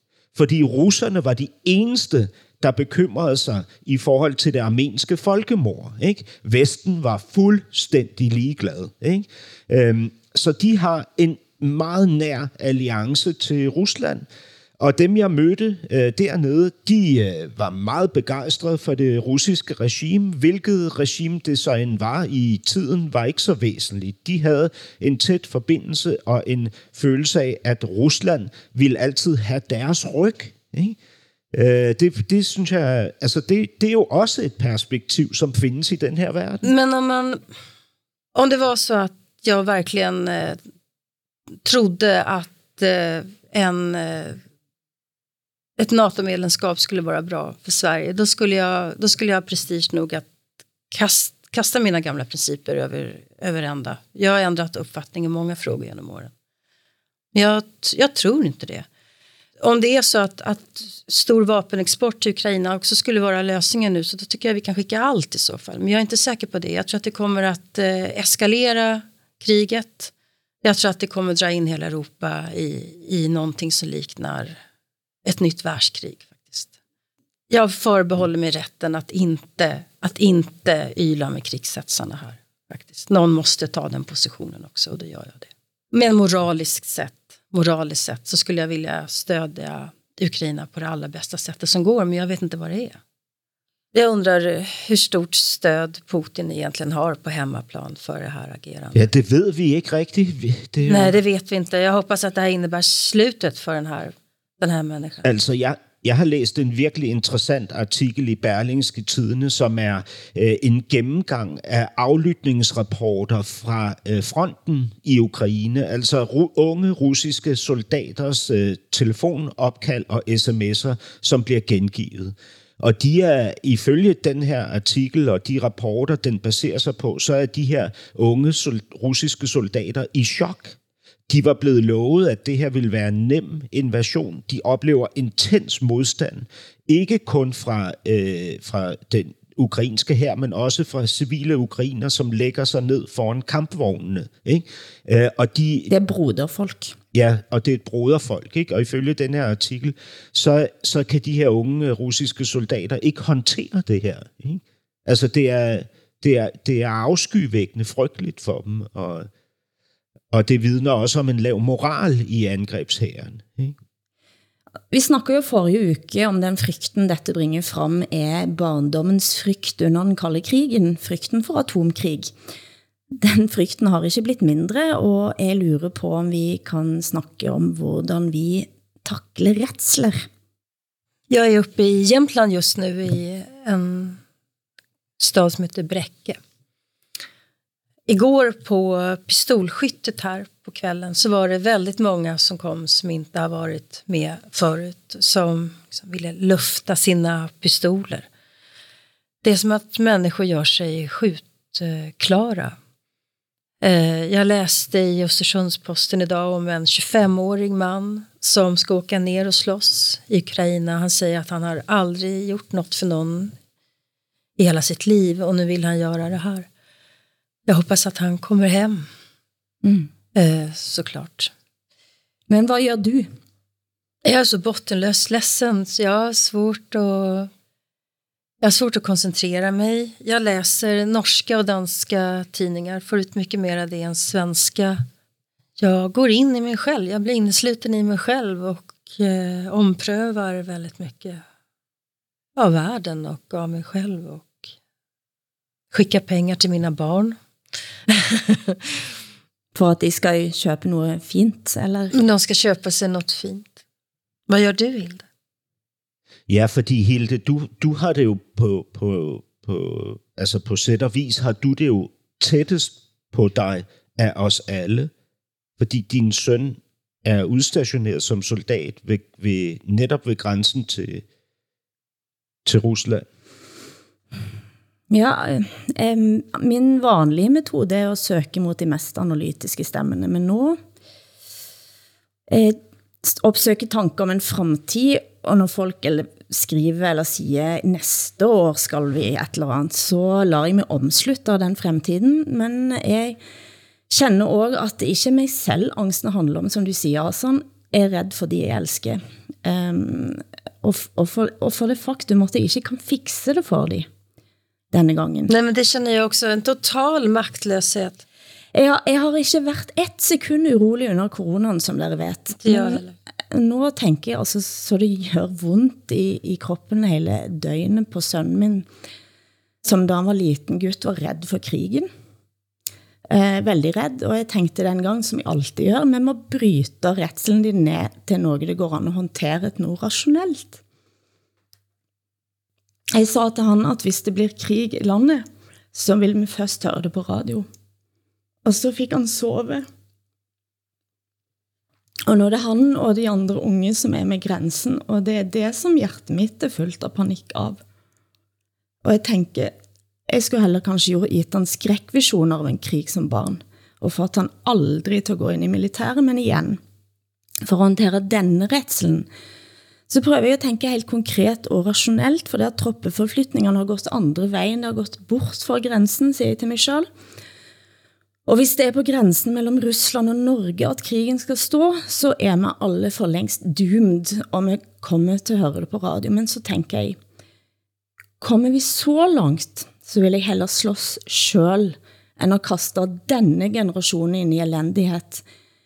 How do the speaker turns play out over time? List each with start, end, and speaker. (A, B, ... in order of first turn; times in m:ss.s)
0:00.4-0:14.3 A
0:14.8-0:31.0 A
0:31.5-0:36.7 A
0:36.6-0:37.4 B
0:38.4-0:40.6 B
0:41.6-0:44.4 B
0:45.8-0:50.3 B
0:50.9-0:56.3 B
0:57.3-0:58.9 B
0:59.6-1:10.1 B
1:10.6-1:14.6 B
1:15.2-1:16.7 B
1:17.5-1:33.0 B
1:33.9-1:39.1 B
1:39.0-1:41.2 A
1:40.8-1:45.2 B
1:45.2-2:10.8 A
2:11.3-2:25.9 A
2:25.9-2:27.0 C
2:27.1-2:39.3 A
2:40.3-2:43.8 A
2:44.9-2:52.3 C
2:53.1-3:00.3 C
3:01.3-3:04.2 B
3:05.2-3:06.4 B
3:08.1-3:18.3 B
3:19.4-3:22.8 B
3:23.8-3:33.5 B
3:34.6-3:36.7 B
3:37.7-3:39.0 B
3:39.8-3:40.1 C
3:40.4-3:41.5 B
3:42.5-3:43.3 C
3:44.2-3:47.5 B
3:48.6-3:55.0 B
3:55.8-4:01.4 B
4:02.6-4:04.7 B
4:05.9-4:07.4 B
4:08.1-4:08.8 B
4:09.8-4:12.1 C
4:12.1-4:13.8 B
4:14.5-4:15.2 B
4:16.5-4:25.1 A
4:25.8-4:31.2 A
4:32.6-4:33.2 A
4:35.1-4:40.8 C
4:42.5-4:53.4 C
4:54.1-5:04.1 C
5:04.9-5:05.5 C
5:05.5-5:08.2 B
5:08.7-5:18.9 C
5:12.6-5:13.1 B
5:19.8-5:22.1 C
5:23.3-5:30.8 C
5:33.2-5:37.7 C
5:38.6-5:39.9 C
5:42.3-5:47.8 C
5:49.0-5:49.7 C
5:50.3-5:56.8 C
5:57.6-5:59.3 C
6:00.1-6:07.1 C
6:08.5-6:17.2 C
6:18.4-6:25.4 C